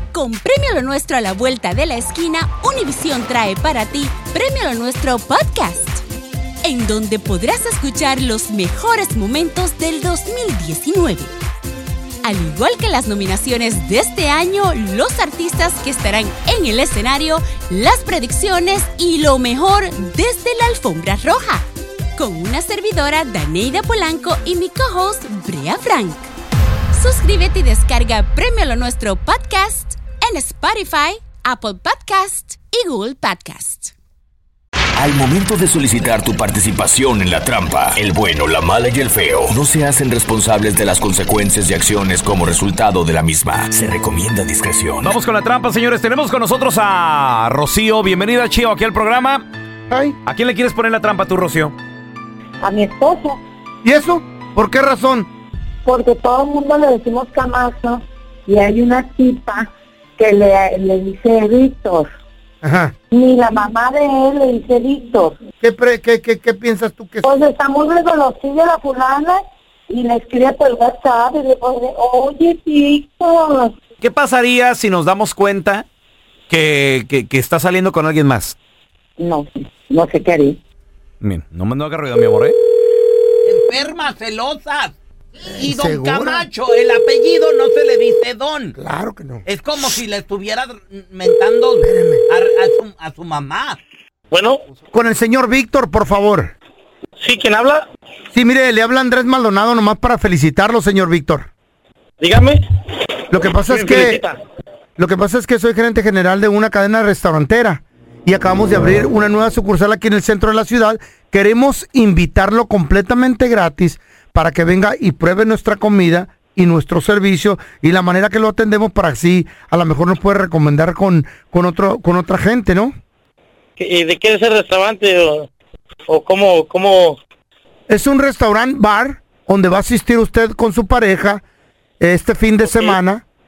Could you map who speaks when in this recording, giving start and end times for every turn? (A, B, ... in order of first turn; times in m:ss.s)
0:00.1-0:06.0 A
0:06.6-0:11.3 A
0:12.2-0:21.6 A
0:22.2-0:26.3 A
0:26.9-0:33.9 A
0:35.0-0:45.1 B
0:45.0-0:49.4 C
0:49.9-0:50.2 D
0:50.2-0:51.7 C
0:52.6-0:53.4 E
0:53.8-0:55.3 D
0:55.8-1:02.1 E
1:02.6-1:02.9 D
1:03.1-1:05.4 E
1:05.6-1:07.3 D
1:07.2-1:13.8 E
1:14.0-1:15.8 C
1:16.5-1:18.5 C
1:19.2-1:20.6 E
1:21.2-1:22.6 C
1:23.4-1:24.9 F
1:25.5-1:28.8 F
1:25.5-1:26.5 D
1:28.7-1:29.4 D
1:29.4-1:33.8 F
1:31.8-1:32.2 D
1:34.3-1:34.6 G
1:34.9-1:36.5 D
1:37.2-1:37.8 G
1:38.3-1:41.5 D
1:42.2-1:42.6 G
1:43.3-1:44.2 D
1:43.7-1:44.4 G
1:45.0-2:02.9 D
2:03.8-2:05.5 G
2:06.1-2:07.2 G
2:07.9-2:11.4 D
2:12.0-2:13.2 D
2:12.6-2:13.0 G